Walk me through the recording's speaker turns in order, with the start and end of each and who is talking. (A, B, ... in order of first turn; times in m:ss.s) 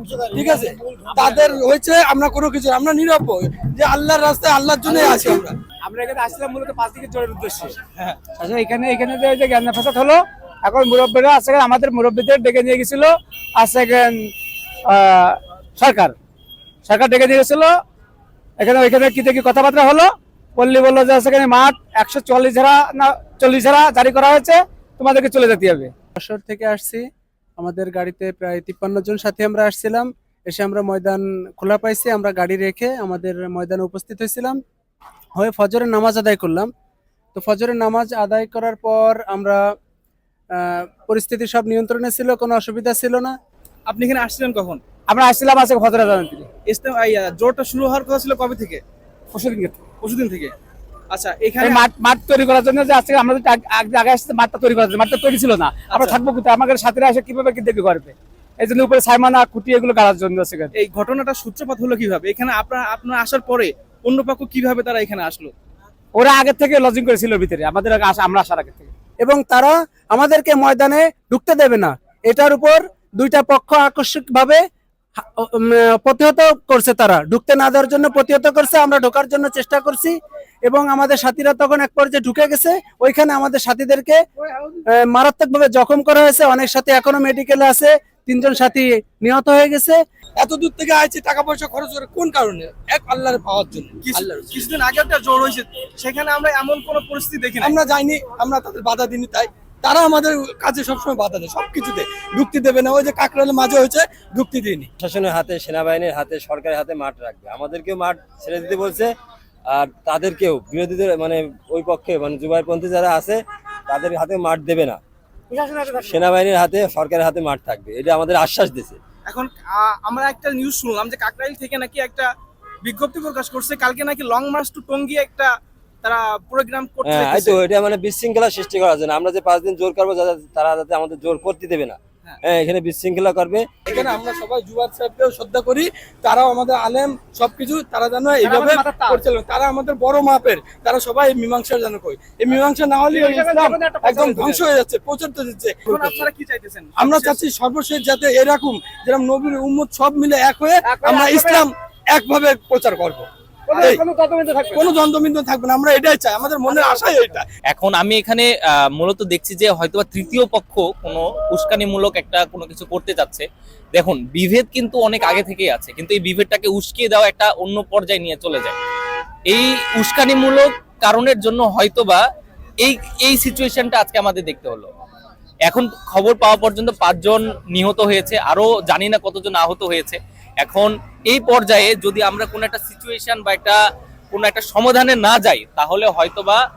0:00.2-0:05.6 A
0:05.8-0:07.8 B
0:08.3-0:14.3 B
0:14.9-0:16.2 B
0:16.9-0:17.8 B
0:18.6-0:25.9 B
0:26.2-0:27.1 C
0:27.6-0:34.6 C
0:35.4-0:36.7 C
0:37.4-0:39.7 C
0:40.5-0:43.3 C
0:43.9-0:44.8 D
0:45.1-0:46.5 B
0:46.7-0:48.8 D
0:49.3-0:49.8 B
0:50.0-0:50.5 D
0:51.1-0:51.9 D
0:51.6-1:00.7 B
0:55.9-0:56.2 D
1:00.8-1:05.5 D
1:06.1-1:08.9 B
1:09.2-1:14.6 C
1:15.2-1:24.2 C
1:24.9-1:30.0 C
1:30.4-1:34.7 A
1:34.0-1:37.8 D
1:37.6-1:44.9 A
1:45.0-1:49.1 E
1:49.7-1:55.0 E
1:55.5-1:56.0 B
1:56.0-1:59.0 E
1:59.3-2:02.3 D
2:02.8-2:05.5 D
2:06.0-2:07.6 D
2:07.0-2:13.9 E
2:13.9-2:26.1 A
2:18.4-2:19.2 B
2:23.1-2:24.6 B
2:25.9-2:27.4 D
2:27.0-2:33.3 A
2:30.8-2:31.7 B
2:33.7-2:35.0 B
2:33.7-2:34.0 D
2:34.8-2:37.5 A
2:37.7-2:48.8 F
2:49.5-2:52.2 F
2:52.8-2:54.9 F
2:55.7-3:03.8 F
3:04.3-3:06.6 F